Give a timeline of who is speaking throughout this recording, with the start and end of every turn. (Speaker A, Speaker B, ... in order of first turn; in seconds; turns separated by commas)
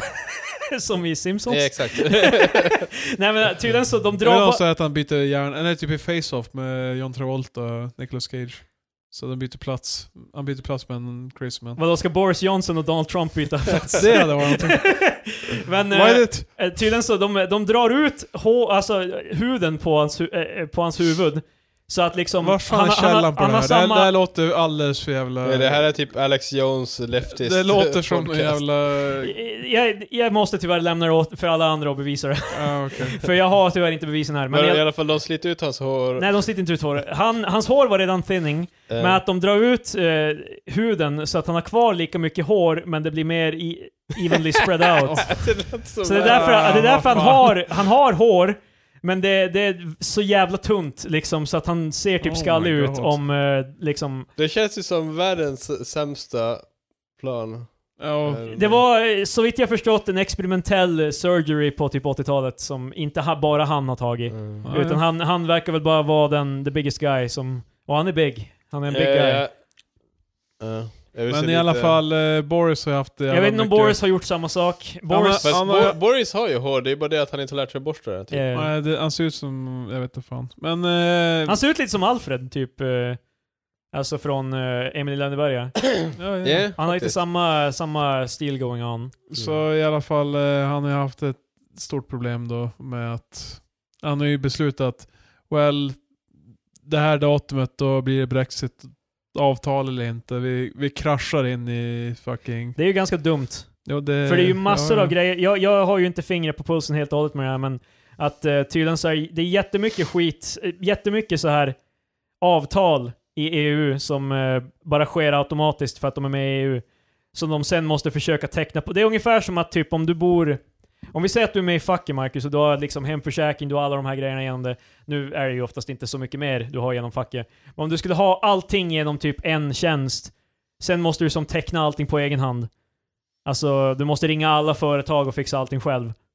Speaker A: 0.7-4.6, Speaker B: 1.5-2.9, Speaker C: 4.2-11.8, Speaker A: 11.8-24.1, Speaker C: 13.9-15.3, Speaker C: 15.9-16.6, Speaker C: 22.4-25.8, Speaker B: 25.4-28.6, Speaker C: 27.3-29.3, Speaker A: 29.2-34.8, Speaker C: 32.5-33.2, Speaker B: 34.5-36.3, Speaker A: 36.2-54.3, Speaker B: 38.9-39.2, Speaker B: 45.1-47.1, Speaker C: 46.2-47.6, Speaker C: 52.2-53.2, Speaker B: 54.4-58.8, Speaker C: 58.0-58.5, Speaker A: 58.5-69.4, Speaker B: 64.3-64.7, Speaker C: 64.6-65.0, Speaker B: 68.9-69.7, Speaker B: 70.6-72.0, Speaker C: 71.3-74.2, Speaker A: 73.3-75.6, Speaker C: 75.1-76.0, Speaker B: 75.4-78.4, Speaker A: 78.3-78.7, Speaker C: 78.5-81.6, Speaker A: 81.5-83.2, Speaker A: 83.9-89.2, Speaker C: 86.2-86.7, Speaker B: 86.4-87.2, Speaker C: 89.3-96.3, Speaker B: 89.3-89.6, Speaker C: 96.8-102.8, Speaker A: 102.8-111.8, Speaker C: 103.8-105.2, Speaker A: 112.4-132.7, Speaker A: 133.4-136.1